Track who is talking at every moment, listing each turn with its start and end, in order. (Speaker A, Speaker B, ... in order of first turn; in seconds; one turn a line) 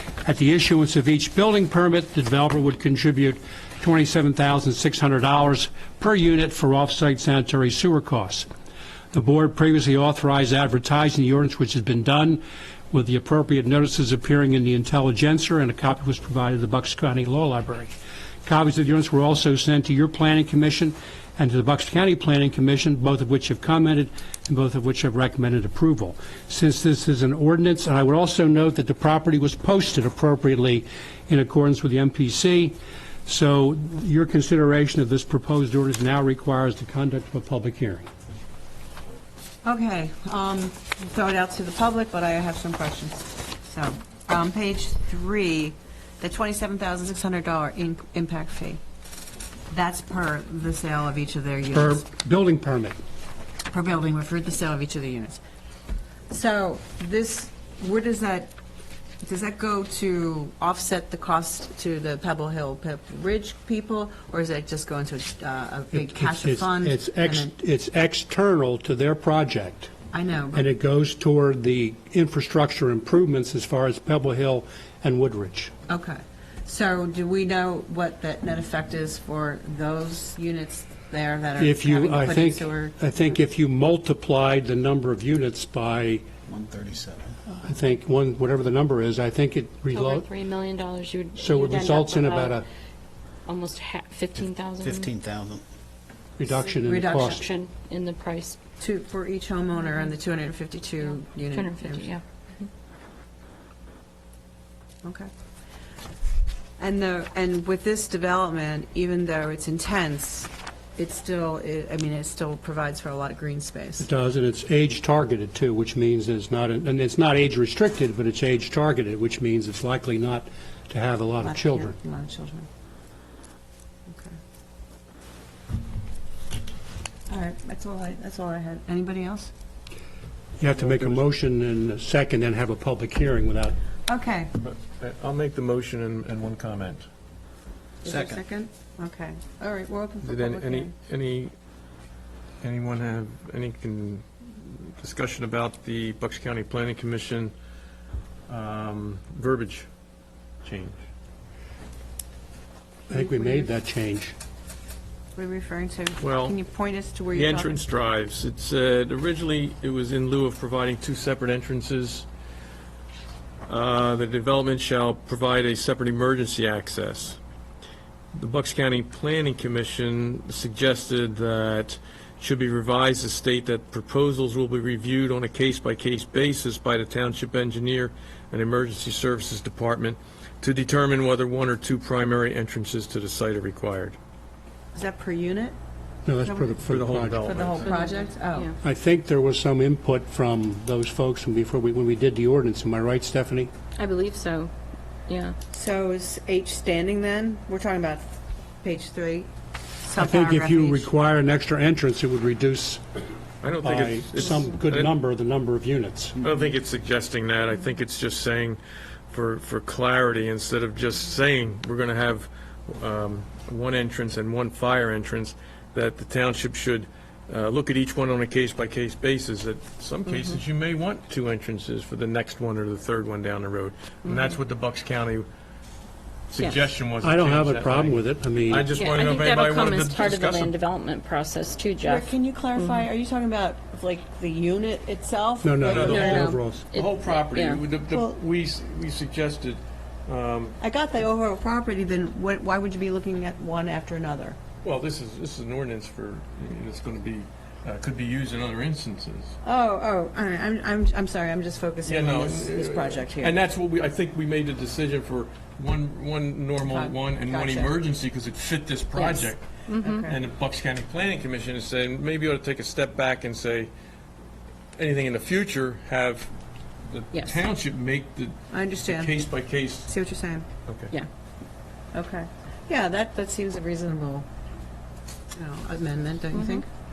Speaker A: 0.2-8.5
Speaker A: 9.1-38.1
Speaker B: 39.6-48.8
Speaker B: 49.7-52.1
Speaker A: 51.7-53.0
Speaker B: 53.7-55.4
Speaker B: 56.3-58.5
Speaker B: 59.2-67.5
Speaker A: 65.9-69.9
Speaker B: 70.1-70.7
Speaker A: 70.5-75.7
Speaker B: 75.9-83.0
Speaker A: 81.6-86.2
Speaker C: 86.5-87.3
Speaker A: 87.5-90.3
Speaker D: 89.9-92.6
Speaker A: 91.4-92.6
Speaker D: 93.4-95.1
Speaker C: 94.8-95.6
Speaker A: 96.4-97.4
Speaker B: 96.8-97.4
Speaker D: 96.9-98.6
Speaker B: 98.8-102.1
Speaker D: 101.5-102.2
Speaker B: 105.0-105.3
Speaker B: 106.8-114.1
Speaker A: 114.0-121.9
Speaker B: 121.4-122.7
Speaker B: 124.1-124.3
Speaker B: 127.3-129.5
Speaker A: 130.6-133.8
Speaker E: 130.8-131.2
Speaker B: 134.1-134.5
Speaker E: 134.6-137.0
Speaker C: 138.0-138.4
Speaker B: 138.0-140.9
Speaker E: 140.2-141.5
Speaker E: 142.6-147.5
Speaker E: 148.5-149.9
Speaker E: 150.6-151.0
Speaker A: 153.1-154.3
Speaker B: 153.2-153.6
Speaker B: 155.3-157.8
Speaker E: 156.2-156.6
Speaker E: 157.3-162.2
Speaker E: 163.7-167.4
Speaker E: 168.3-184.2
Speaker B: 184.9-185.8
Speaker A: 186.2-187.6
Speaker B: 186.4-186.8
Speaker E: 186.8-187.9
Speaker B: 187.4-188.7
Speaker D: 187.8-188.7
Speaker A: 188.8-193.7
Speaker D: 193.9-194.7
Speaker D: 195.3-195.5
Speaker B: 195.7-199.5
Speaker B: 200.0-201.1
Speaker A: 200.2-203.0
Speaker E: 203.6-205.1
Speaker A: 203.8-206.4
Speaker E: 206.4-225.5
Speaker D: 224.3-224.5
Speaker E: 226.5-230.7
Speaker D: 226.6-226.8
Speaker A: 227.2-228.9
Speaker D: 228.9-233.1
Speaker B: 232.0-236.5
Speaker A: 235.6-236.8
Speaker E: 235.8-240.8
Speaker D: 236.0-237.8
Speaker B: 238.1-238.4
Speaker B: 240.8-244.6
Speaker E: 244.8-249.6
Speaker B: 249.6-253.6
Speaker E: 252.0-263.9
Speaker B: 256.9-258.0
Speaker D: 259.1-260.3
Speaker B: 260.0-260.4
Speaker E: 264.9-266.5
Speaker E: 267.1-270.1
Speaker D: 267.3-267.6
Speaker B: 268.7-269.4
Speaker B: 270.1-270.7
Speaker E: 270.9-271.1
Speaker B: 272.1-274.4
Speaker B: 275.5-276.8
Speaker D: 276.5-276.8